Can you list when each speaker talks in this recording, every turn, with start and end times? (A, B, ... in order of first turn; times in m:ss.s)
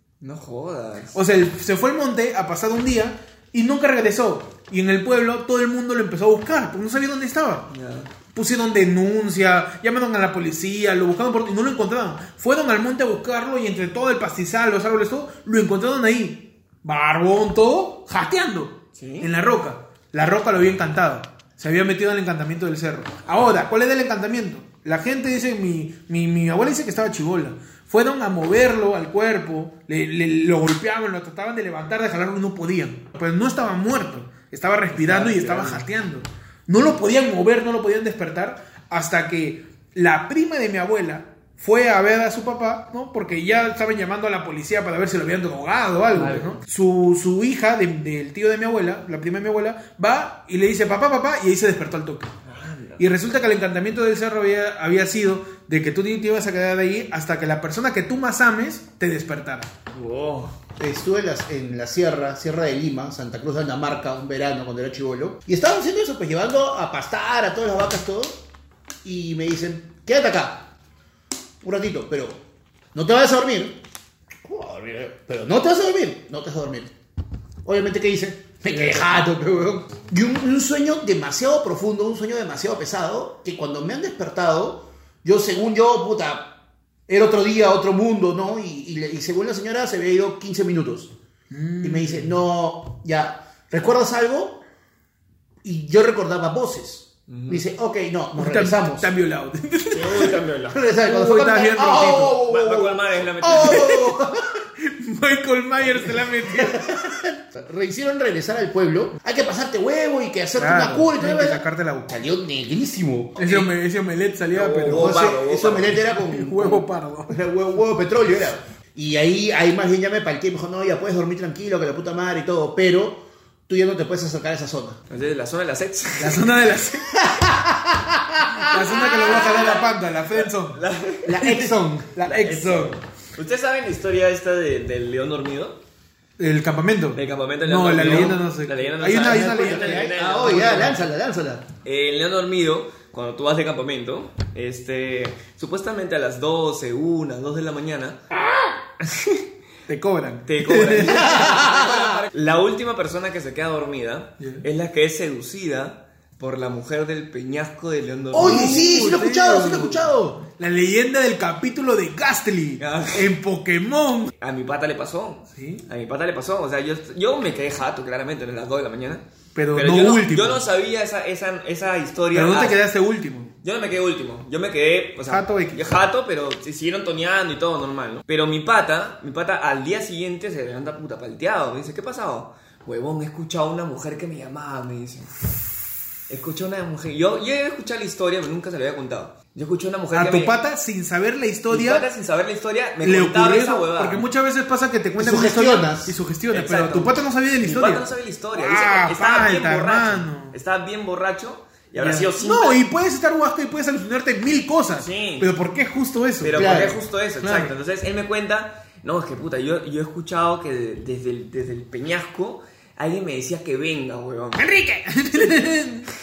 0:00.2-0:01.2 A
0:01.1-0:07.7 B
0:07.7-0:08.1 A
0:08.3-0:52.3 B
0:19.0-0:19.3 A
0:34.9-0:35.8 A
0:46.1-0:46.6 A
0:52.4-0:53.0 A
0:53.0-0:59.7 B
0:59.9-1:00.5 A
1:00.8-1:08.4 C
1:09.0-1:10.7 C
1:11.6-1:12.4 C
1:12.9-1:13.8 C
1:14.4-1:16.9 C
1:17.6-1:26.5 C
1:27.1-1:31.1 C
1:31.5-1:32.4 B
1:31.8-1:34.6 C
1:35.6-1:39.1 C
1:37.3-1:37.6 A
1:38.4-1:40.4 B
1:39.9-1:40.8 A
1:40.7-1:44.6 C
1:41.0-1:42.4 B
1:42.5-1:44.0 A
1:43.4-1:44.1 B
1:44.8-1:47.1 B
1:46.4-1:53.7 C
1:50.6-1:52.1 B
1:53.4-1:55.3 B
1:54.5-1:56.0 A
1:54.8-2:05.0 C
1:55.9-1:57.4 B
2:05.1-2:06.4 A
2:06.2-2:07.9 B
2:08.6-2:13.0 B
2:08.7-2:09.6 C
2:09.2-2:09.8 A
2:10.7-2:11.3 A
2:11.3-2:12.2 C
2:12.2-2:15.8 A
2:16.4-2:21.0 B
2:17.1-2:21.0 A
2:17.9-2:18.4 C
2:19.1-2:21.6 C
2:21.8-2:28.2 A
2:29.0-2:29.4 A
2:29.9-2:31.6 B
2:30.4-2:38.8 A
2:31.0-2:32.2 C
2:34.4-2:34.6 B
2:38.3-2:40.4 C
2:38.3-2:44.3 B
2:42.8-2:43.3 A
2:44.4-2:52.8 A
2:45.5-2:45.8 B
2:49.5-2:50.6 B
2:52.3-2:53.5 B
2:53.6-3:05.4 A
2:55.3-2:56.0 B
3:06.3-3:10.5 A
3:10.1-3:12.1 B
3:11.7-3:14.2 A
3:13.0-3:20.6 B
3:15.2-3:16.1 C
3:16.5-3:22.8 A
3:22.0-3:26.9 B
3:25.0-3:25.5 A
3:26.4-3:34.6 A
3:26.5-3:27.0 C
3:27.4-3:27.7 B
3:34.6-3:36.1 B